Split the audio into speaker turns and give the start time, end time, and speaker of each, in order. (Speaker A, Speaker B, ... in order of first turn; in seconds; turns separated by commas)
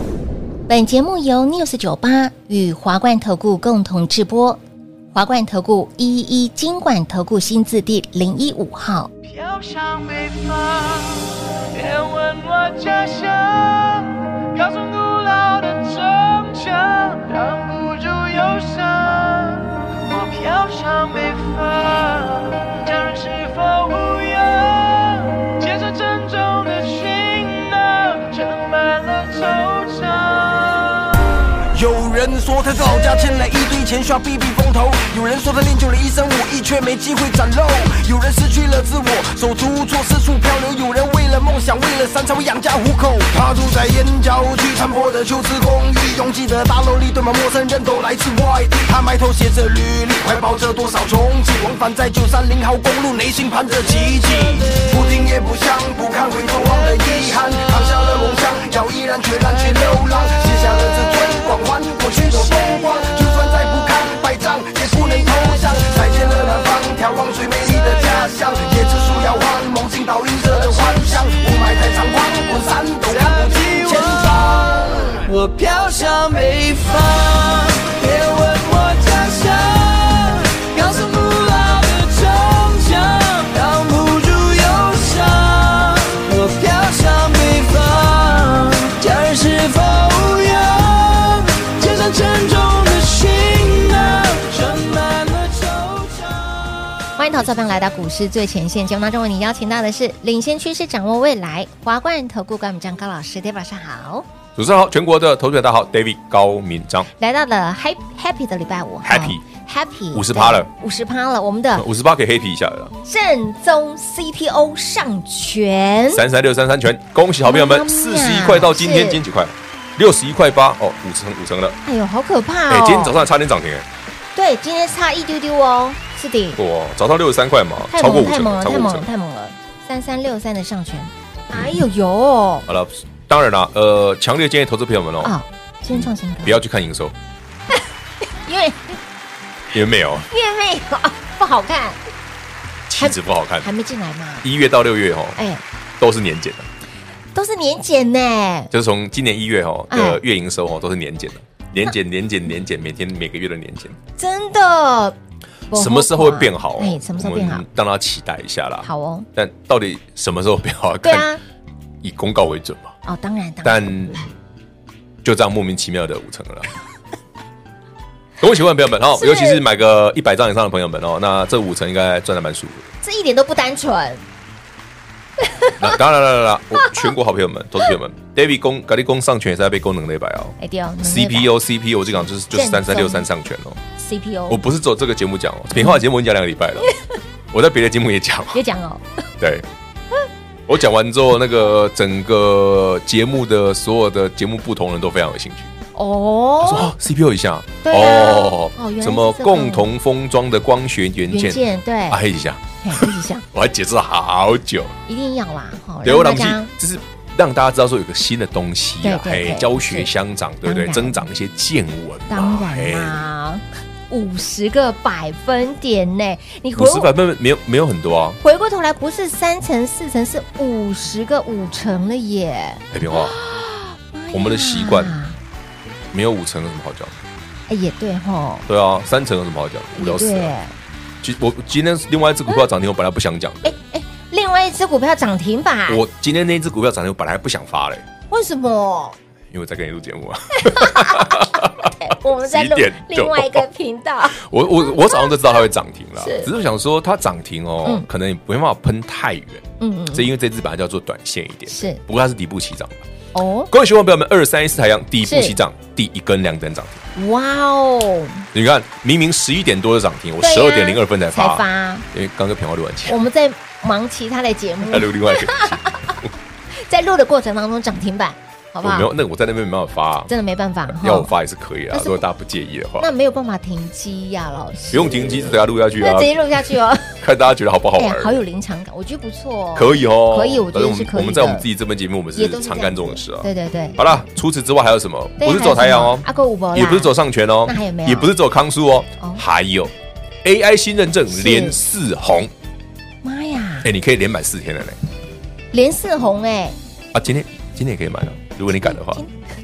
Speaker A: 0.7-4.6, Speaker A: 5.1-9.1, Speaker B: 9.2-31.3, Speaker C: 31.7-74.9, Speaker B: 73.1-96.9, Speaker A: 97.2-104.2, Speaker D: 104.5-107.1, Speaker A: 107.2-111.8, Speaker D: 109.0-109.4, Speaker D: 110.1-110.7, Speaker D: 111.8-112.9, Speaker A: 113.0-116.2, Speaker D: 116.1-121.8, Speaker A: 117.4-119.2, Speaker A: 121.8-123.2, Speaker D: 122.7-123.9, Speaker A: 124.3-126.6, Speaker D: 126.5-129.1, Speaker A: 127.9-132.7, Speaker D: 132.7-135.3, Speaker A: 135.2-136.6, Speaker D: 135.9-137.2, Speaker A: 138.4-139.0, Speaker D: 139.7-140.3, Speaker A: 140.3-142.0, Speaker D: 142.9-143.7, Speaker A: 143.0-144.5, Speaker D: 144.4-145.4, Speaker A: 145.3-145.6, Speaker D: 146.0-146.7, Speaker A: 147.3-148.7, Speaker D: 148.7-154.0, Speaker A: 149.9-150.2, Speaker A: 154.2-155.2, Speaker A: 155.7-157.6, Speaker D: 155.7-161.3, Speaker A: 158.8-159.3, Speaker A: 161.0-161.4, Speaker D: 162.0-162.9, Speaker A: 163.0-163.9, Speaker D: 163.6-164.2, Speaker D: 165.2-166.7, Speaker D: 168.4-172.9, Speaker A: 169.1-169.6, Speaker A: 173.0-174.2, Speaker A: 175.4-175.8, Speaker D: 175.8-183.8, Speaker A: 180.6-183.3, Speaker A: 184.0-184.6, Speaker D: 184.5-186.9, Speaker D: 187.5-188.6, Speaker A: 188.5-189.1, Speaker D: 189.4-189.7, Speaker D: 190.7-195.7, Speaker A: 195.9-196.9, Speaker D: 196.6-204.9, Speaker A: 197.8-199.9, Speaker A: 201.3-202.2, Speaker A: 202.8-203.4, Speaker A: 205.1-206.7, Speaker D: 206.0-213.2, Speaker A: 209.0-210.1, Speaker A: 210.6-211.2, Speaker A: 212.3-217.1, Speaker D: 216.8-218.4, Speaker A: 218.4-225.4, Speaker D: 222.9-223.4, Speaker D: 224.3-225.2, Speaker D: 226.1-227.2, Speaker A: 227.7-228.7, Speaker D: 228.7-230.5, Speaker A: 229.9-230.7, Speaker D: 231.2-233.8, Speaker A: 233.6-236.0, Speaker D: 235.9-238.1, Speaker A: 238.3-239.2, Speaker D: 239.5-243.7, Speaker A: 240.6-244.4, Speaker D: 244.3-253.1, Speaker A: 246.2-246.5, Speaker A: 249.8-250.3, Speaker A: 251.7-252.0, Speaker A: 253.3-253.7, Speaker D: 253.7-257.0, Speaker A: 255.2-255.6, Speaker A: 257.1-258.5, Speaker D: 258.5-263.2, Speaker A: 260.4-262.1, Speaker A: 263.1-266.2, Speaker D: 264.8-266.3, Speaker A: 266.7-269.1, Speaker D: 268.8-270.3, Speaker A: 270.3-271.3, Speaker D: 270.9-273.1, Speaker A: 271.9-272.2, Speaker A: 273.0-277.2, Speaker D: 274.9-276.4, Speaker D: 277.2-278.4, Speaker A: 277.9-281.6, Speaker D: 279.7-292.5, Speaker A: 282.3-284.1, Speaker A: 285.4-288.3, Speaker A: 291.3-291.8, Speaker A: 293.2-293.9, Speaker D: 293.8-295.0, Speaker A: 295.7-296.8, Speaker D: 297.1-299.2, Speaker A: 298.7-299.3